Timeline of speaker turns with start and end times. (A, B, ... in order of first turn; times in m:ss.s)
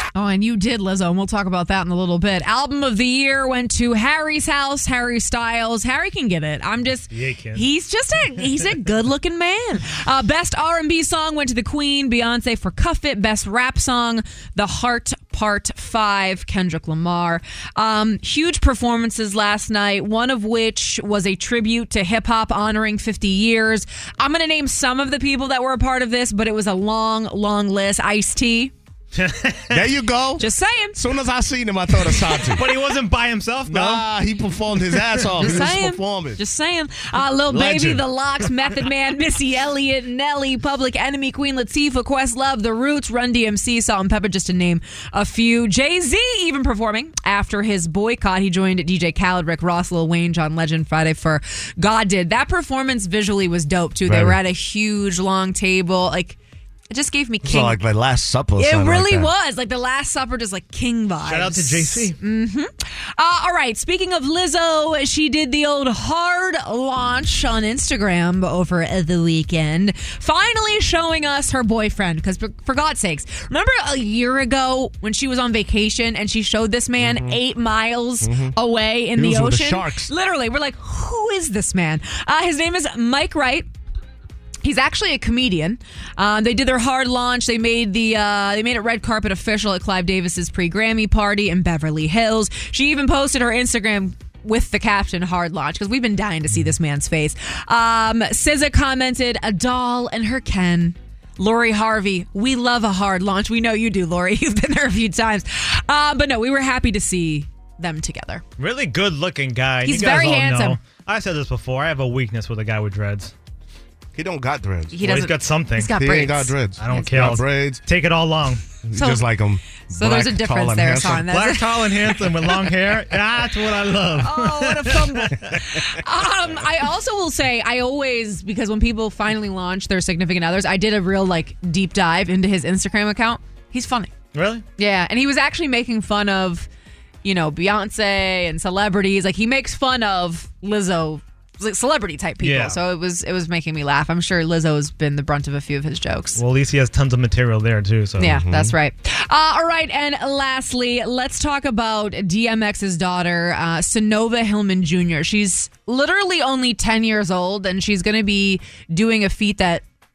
0:00.2-0:28.7 A
0:07.1-0:07.7 B
0:29.2-0:29.8 B
0:29.7-0:32.7 C
0:30.4-0:31.0 A
0:32.5-0:34.0 B
0:33.7-0:36.4 C
0:35.4-0:56.4 A
0:37.5-0:38.0 B
0:37.6-0:38.0 C
0:54.0-0:54.4 C
0:56.9-0:57.8 A
0:57.4-0:59.3 C
0:58.6-1:23.7 A
1:01.2-1:02.2 B
1:17.0-1:17.4 C
1:18.2-1:18.6 C
1:19.2-1:20.1 C
1:24.6-1:48.4 A
1:48.6-1:53.3 B
1:49.8-1:50.8 A
1:54.1-1:55.0 C
1:54.9-1:57.1 A
1:55.0-1:55.9 B
1:56.0-1:57.8 C
1:56.8-1:58.6 B
1:58.8-2:01.3 C
1:59.0-1:59.3 A
1:59.9-2:01.8 A
2:01.2-2:05.6 B
2:04.2-2:14.1 A
2:14.3-2:14.6 B
2:14.8-2:16.7 A
2:17.2-2:26.4 A
2:22.4-2:22.8 B
2:26.4-2:28.4 B
2:28.2-2:39.8 A
2:28.3-2:28.7 C